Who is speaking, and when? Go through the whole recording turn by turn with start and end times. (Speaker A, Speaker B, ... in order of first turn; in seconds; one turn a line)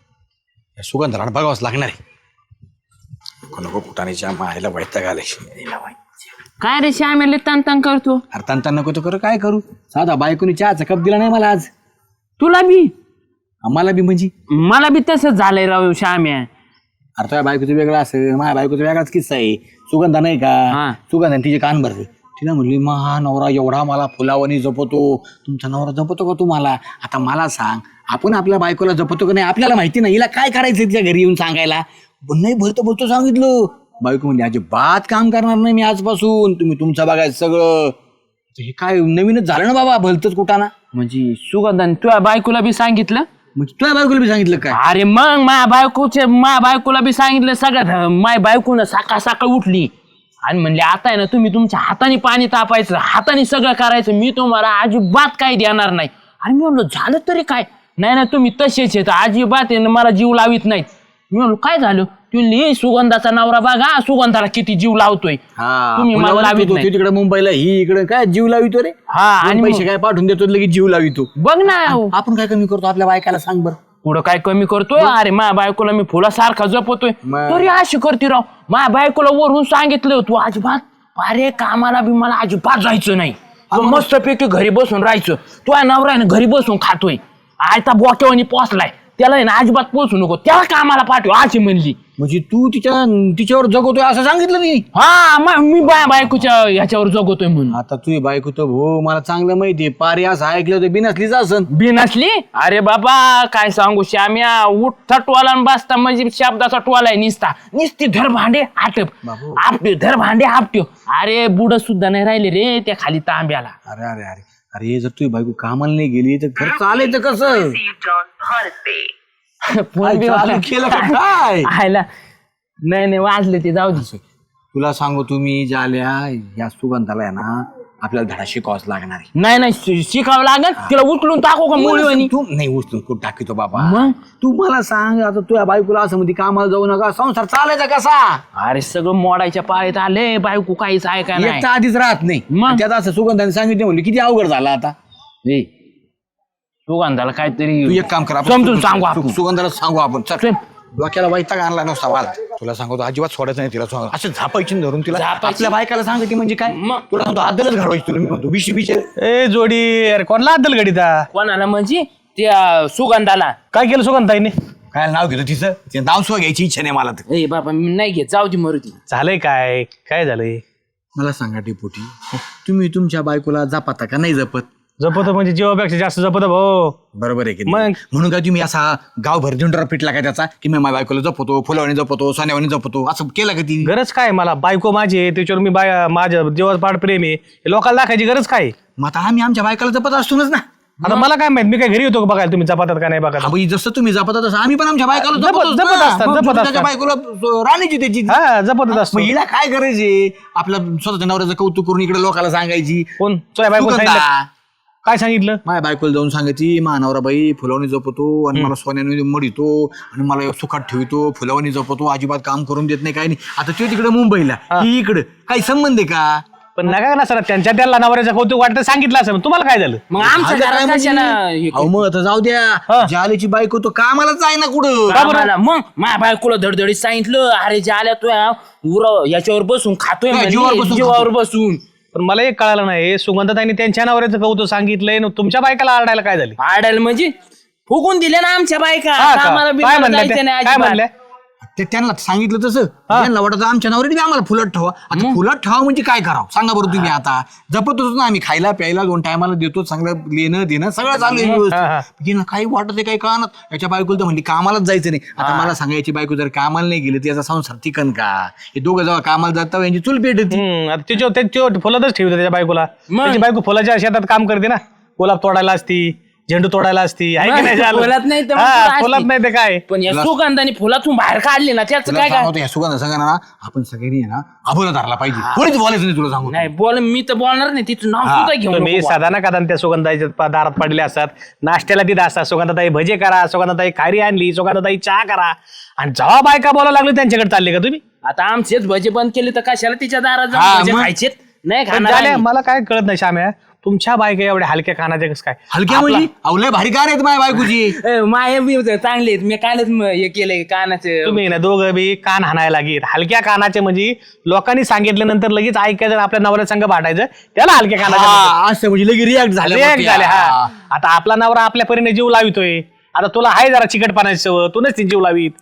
Speaker A: 0.8-2.0
Speaker A: 3.5-5.9
Speaker B: 6.6-8.2
Speaker A: 8.3-11.7
Speaker B: 12.4-12.9
Speaker A: 13.6-14.3
Speaker B: 14.5-16.5
Speaker A: 17.2-38.0
Speaker B: 20.7-21.0
Speaker A: 38.5-40.7
Speaker B: 40.9-43.3
Speaker A: 43.5-44.8
Speaker B: 44.7-49.9
Speaker B: 50.4-65.4
Speaker A: 65.5-73.8
Speaker B: 66.0-66.9
Speaker B: 69.1-69.8
Speaker B: 71.4-72.1
Speaker B: 74.0-92.0
Speaker A: 77.2-77.7
Speaker A: 83.7-84.0
Speaker A: 92.2-94.9
Speaker B: 94.9-97.8
Speaker A: 97.7-101.7
Speaker B: 101.7-113.7
Speaker A: 109.2-109.6
Speaker A: 113.8-117.8
Speaker B: 116.8-119.1
Speaker B: 119.7-122.1
Speaker A: 120.0-121.7
Speaker B: 122.8-124.1
Speaker A: 123.9-124.2
Speaker A: 124.7-129.3
Speaker B: 129.3-132.3
Speaker A: 131.7-138.4
Speaker B: 133.8-134.1
Speaker B: 138.6-141.7
Speaker A: 141.3-144.9
Speaker B: 142.5-142.8
Speaker B: 146.9-149.4
Speaker A: 147.8-159.1
Speaker B: 155.1-155.7
Speaker B: 156.7-157.0
Speaker C: 159.2-161.3
Speaker B: 161.3-163.6
Speaker C: 163.7-164.5
Speaker A: 164.9-167.2
Speaker B: 167.3-169.0
Speaker C: 169.1-170.6
Speaker A: 171.1-174.7
Speaker C: 175.0-177.0
Speaker A: 177.1-183.9
Speaker C: 177.7-177.9
Speaker C: 183.8-188.8
Speaker A: 189.0-190.6
Speaker C: 191.0-193.5
Speaker A: 193.4-203.1
Speaker C: 195.2-196.9
Speaker C: 198.3-199.3
Speaker C: 203.2-204.2
Speaker A: 203.7-204.5
Speaker C: 205.1-205.6
Speaker A: 205.7-216.4
Speaker C: 216.8-220.0
Speaker B: 220.1-221.9
Speaker A: 220.2-225.2
Speaker B: 225.1-231.8
Speaker C: 225.1-225.5
Speaker A: 230.3-231.3
Speaker C: 232.1-236.6
Speaker B: 236.6-237.3
Speaker B: 237.9-241.0
Speaker C: 239.2-241.1
Speaker A: 241.7-260.6
Speaker B: 245.1-245.4
Speaker B: 251.2-251.6
Speaker C: 251.7-252.0
Speaker B: 255.4-255.7
Speaker C: 260.5-269.8
Speaker B: 263.1-263.5
Speaker B: 267.4-269.3
Speaker B: 269.9-272.5
Speaker A: 270.1-270.3
Speaker A: 272.1-276.7
Speaker B: 275.4-275.6
Speaker B: 276.5-279.3
Speaker A: 278.2-278.5
Speaker C: 278.7-288.0
Speaker B: 288.2-292.4
Speaker A: 290.5-291.1
Speaker C: 291.9-296.2
Speaker A: 295.7-297.9
Speaker B: 297.6-301.4
Speaker C: 301.2-308.5
Speaker A: 308.0-310.7
Speaker C: 309.6-315.5